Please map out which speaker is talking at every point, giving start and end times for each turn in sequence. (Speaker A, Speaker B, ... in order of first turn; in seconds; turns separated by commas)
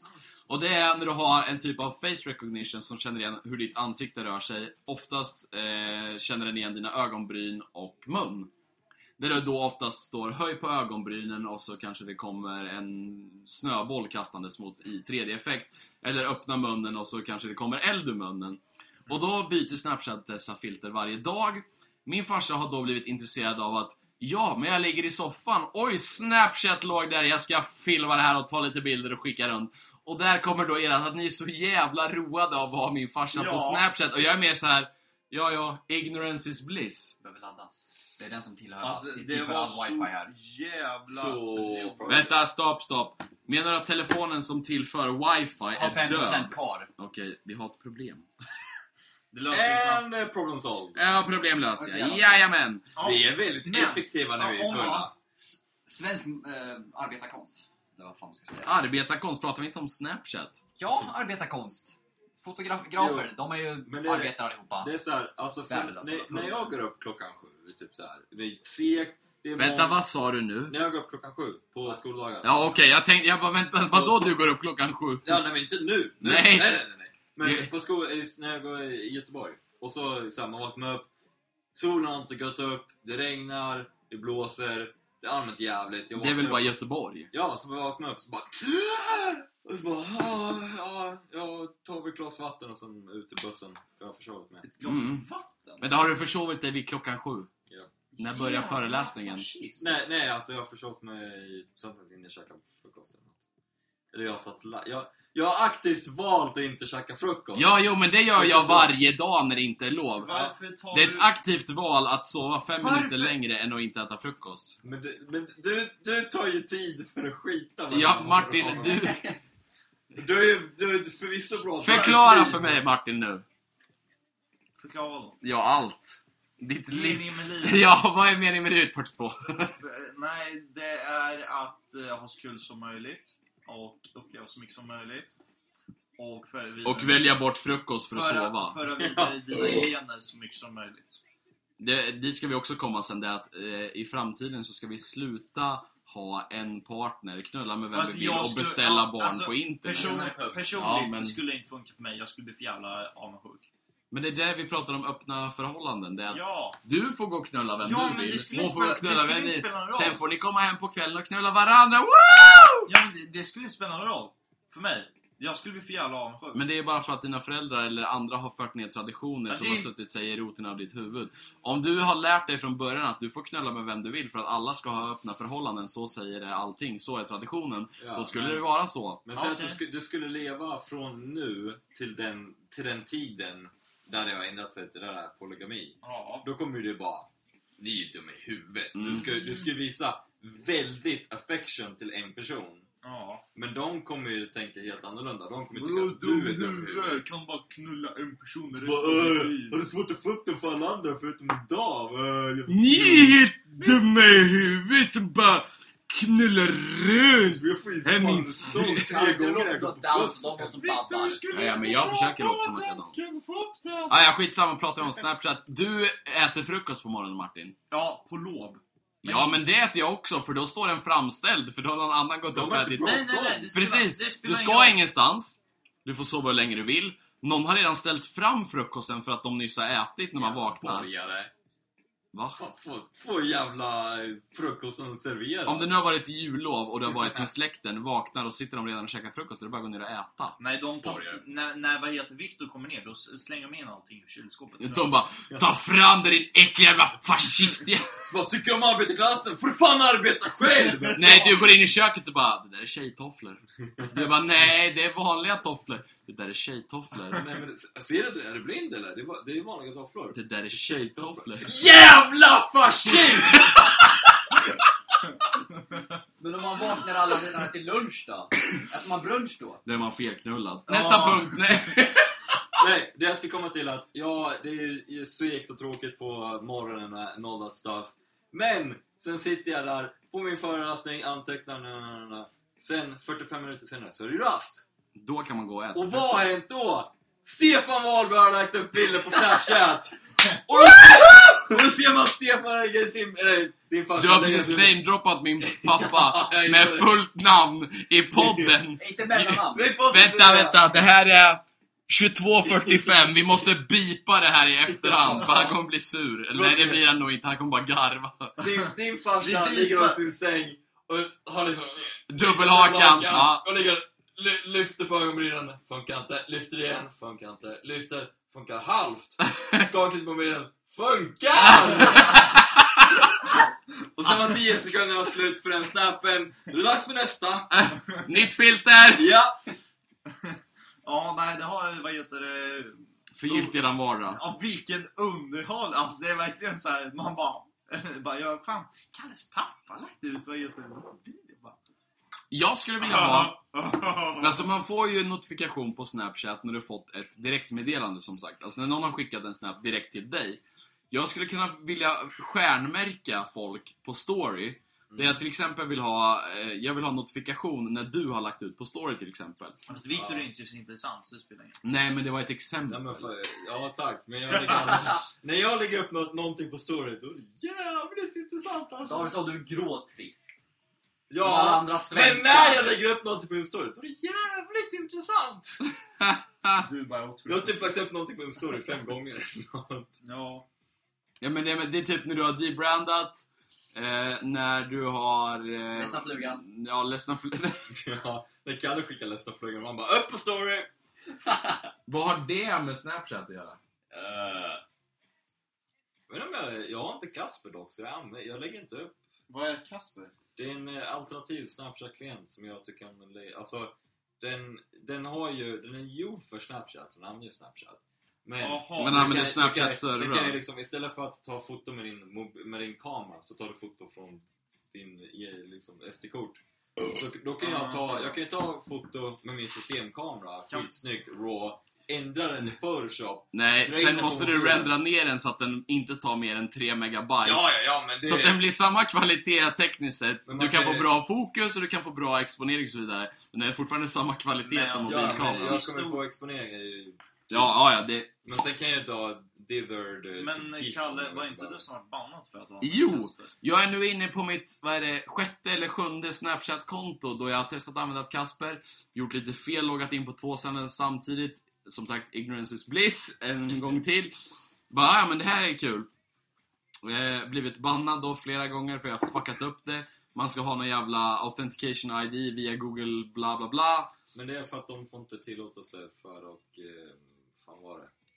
Speaker A: 0.5-8.5, Speaker A: 9.2-37.1, Speaker B: 33.3-33.8, Speaker C: 37.2-40.3, Speaker B: 38.8-42.0, Speaker D: 41.1-42.3, Speaker A: 42.0-48.3, Speaker C: 45.7-46.9, Speaker B: 49.3-50.0, Speaker D: 49.5-51.0, Speaker A: 50.9-52.9, Speaker C: 51.8-52.5, Speaker B: 53.0-55.1, Speaker D: 53.0-55.1, Speaker C: 54.7-58.7, Speaker A: 58.6-60.6, Speaker C: 60.8-64.9, Speaker D: 63.0-63.3, Speaker D: 63.8-70.0, Speaker C: 65.7-66.7, Speaker A: 69.6-70.8, Speaker D: 70.7-72.8, Speaker A: 72.4-75.4, Speaker D: 73.9-74.3, Speaker D: 75.2-81.1, Speaker A: 76.2-76.8, Speaker A: 77.4-77.7, Speaker D: 81.7-94.7, Speaker A: 86.2-87.3, Speaker B: 94.8-95.9, Speaker A: 94.8-95.2, Speaker A: 95.8-97.5, Speaker B: 98.1-99.9, Speaker A: 98.2-99.5, Speaker D: 99.8-103.4, Speaker D: 104.1-107.7, Speaker A: 107.5-110.3, Speaker D: 108.3-108.9, Speaker B: 110.2-111.3, Speaker D: 110.2-110.5, Speaker A: 110.9-114.7, Speaker B: 112.8-113.3, Speaker D: 114.8-119.1, Speaker A: 117.9-119.3, Speaker D: 120.1-122.4, Speaker A: 121.8-123.4, Speaker B: 121.8-122.6, Speaker B: 124.8-125.4, Speaker A: 125.4-129.8, Speaker B: 126.9-127.9, Speaker B: 129.8-135.3, Speaker B: 136.2-137.3, Speaker A: 136.8-138.8, Speaker B: 138.1-141.2, Speaker D: 139.0-139.9, Speaker A: 139.6-139.8, Speaker A: 141.8-150.2, Speaker B: 147.9-153.7, Speaker C: 149.9-150.8, Speaker A: 150.7-151.4, Speaker A: 154.1-162.9, Speaker B: 156.3-156.8, Speaker B: 157.8-160.2, Speaker B: 162.8-166.6, Speaker A: 166.5-179.2, Speaker B: 169.5-169.9, Speaker D: 178.0-178.6, Speaker D: 179.2-192.8, Speaker B: 179.3-179.8, Speaker B: 186.0-186.4, Speaker A: 188.9-189.4, Speaker B: 193.0-193.4, Speaker D: 193.5-197.2, Speaker B: 195.7-199.8, Speaker D: 198.8-203.4, Speaker A: 202.7-209.1, Speaker D: 207.4-211.9, Speaker C: 208.9-211.4, Speaker B: 210.6-214.2, Speaker A: 211.5-213.2, Speaker A: 214.1-217.8, Speaker B: 217.9-219.6, Speaker A: 219.2-223.2, Speaker D: 222.5-223.7, Speaker B: 223.0-225.0, Speaker A: 223.7-231.1, Speaker D: 230.4-231.5, Speaker A: 232.3-232.6, Speaker D: 232.6-235.9, Speaker A: 235.7-240.6, Speaker D: 237.1-237.5, Speaker B: 240.6-245.1, Speaker D: 241.0-241.4, Speaker A: 244.8-248.2, Speaker D: 248.2-251.6, Speaker B: 250.8-251.1, Speaker A: 251.1-257.4, Speaker D: 257.3-263.8, Speaker A: 260.3-261.8, Speaker A: 263.3-264.0, Speaker C: 266.4-269.8, Speaker A: 269.8-272.3, Speaker B: 270.9-271.9, Speaker D: 272.8-284.9, Speaker A: 285.1-286.2, Speaker D: 285.9-295.0, Speaker A: 294.1-308.6, Speaker D: 295.6-297.1, Speaker D: 298.4-298.7, Speaker C: 299.0-299.9, Speaker D: 299.7-300.9, Speaker D: 302.7-303.1, Speaker D: 304.9-305.7, Speaker D: 306.5-307.0, Speaker D: 308.6-322.4, Speaker B: 309.4-310.2, Speaker A: 312.3-313.6, Speaker A: 321.6-323.0, Speaker D: 324.1-327.7, Speaker A: 327.7-329.3, Speaker D: 329.1-329.5, Speaker B: 330.3-333.7, Speaker A: 333.4-334.4, Speaker B: 334.3-341.8, Speaker A: 342.5-343.6, Speaker B: 343.0-344.7, Speaker A: 344.4-359.8, Speaker D: 355.1-355.4, Speaker B: 359.9-361.8, Speaker D: 360.1-360.4, Speaker A: 361.8-363.3, Speaker D: 362.9-369.3, Speaker C: 369.0-370.6, Speaker D: 371.3-375.8, Speaker C: 371.4-373.0, Speaker A: 376.2-376.8, Speaker B: 376.8-378.0, Speaker D: 377.4-380.1, Speaker B: 380.2-380.6, Speaker A: 381.4-387.9, Speaker C: 385.9-386.6, Speaker D: 387.9-390.9, Speaker A: 392.1-393.8, Speaker C: 394.1-394.8, Speaker D: 396.3-399.2, Speaker B: 399.5-400.3, Speaker D: 400.6-424.9, Speaker B: 408.6-409.5, Speaker A: 409.0-410.6, Speaker B: 417.6-418.4, Speaker A: 423.5-427.7, Speaker D: 427.4-428.6, Speaker A: 428.2-435.8, Speaker D: 430.5-431.1, Speaker B: 434.6-436.2, Speaker D: 435.0-437.7, Speaker A: 437.5-438.3, Speaker D: 438.4-441.8, Speaker B: 440.4-443.5, Speaker A: 442.8-454.3, Speaker A: 454.9-456.1, Speaker A: 457.0-464.1, Speaker D: 464.3-468.1